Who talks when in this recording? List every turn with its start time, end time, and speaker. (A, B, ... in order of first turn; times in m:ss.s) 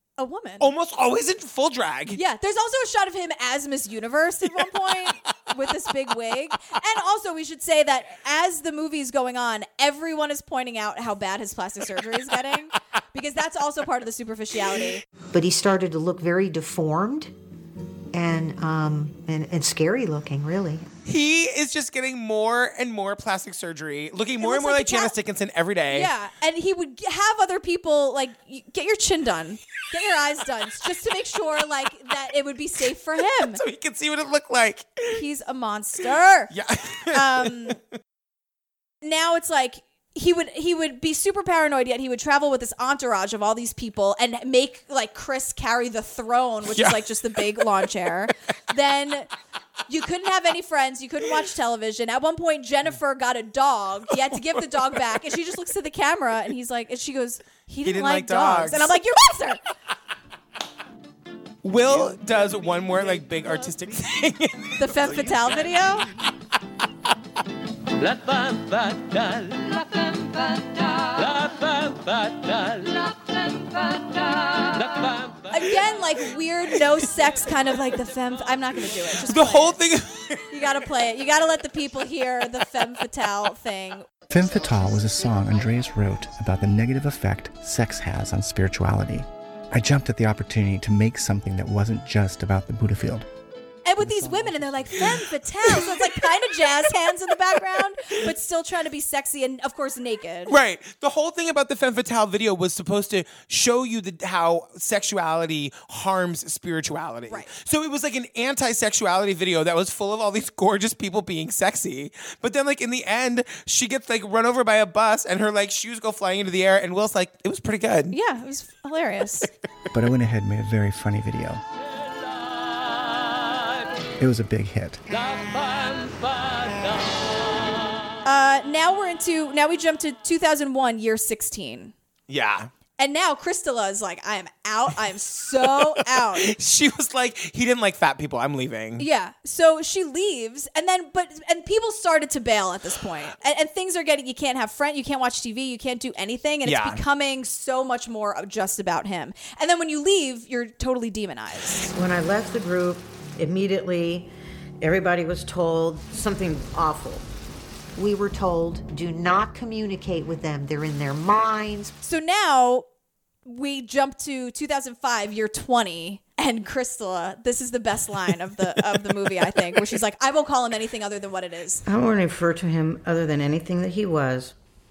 0:00.2-0:00.7 A
0:00.6-0:02.2 B
0:02.1-0:15.0 A
0:15.3-0:17.3 C
0:18.1-0:20.9 C
0:21.1-0:26.1 B
0:24.4-0:25.1 A
0:25.9-0:33.6 A
0:33.4-0:35.2 B
0:35.1-0:36.5 A
0:36.5-0:37.7 B
0:37.1-0:37.8 A
0:39.0-0:49.3 A
0:46.7-0:47.2 B
0:49.9-0:59.6 A
0:57.8-0:58.9 B
1:01.6-1:05.7 B
1:04.8-1:06.1 A
1:08.0-1:15.4 D
1:15.5-1:19.8 A
1:19.2-1:20.4 B
1:20.5-1:24.1 A
1:24.3-1:33.3 E
1:33.8-1:40.6 A
1:34.0-1:35.0 E
1:35.7-1:36.1 B
1:40.5-1:58.1 B
1:58.1-1:59.5 A
1:59.9-2:01.6 E
2:04.2-2:05.0 E
2:05.2-2:06.9 D
2:08.2-2:11.9 A
2:12.3-2:12.7 B
2:13.0-2:16.5 A
2:15.6-2:19.1 B
2:19.0-2:31.9 A
2:26.6-2:27.0 B
2:31.9-2:34.3 F
2:34.8-2:37.3 F
2:38.0-2:41.9 C
2:42.0-2:42.9 A
2:43.5-2:51.8 A
2:51.9-2:54.6 F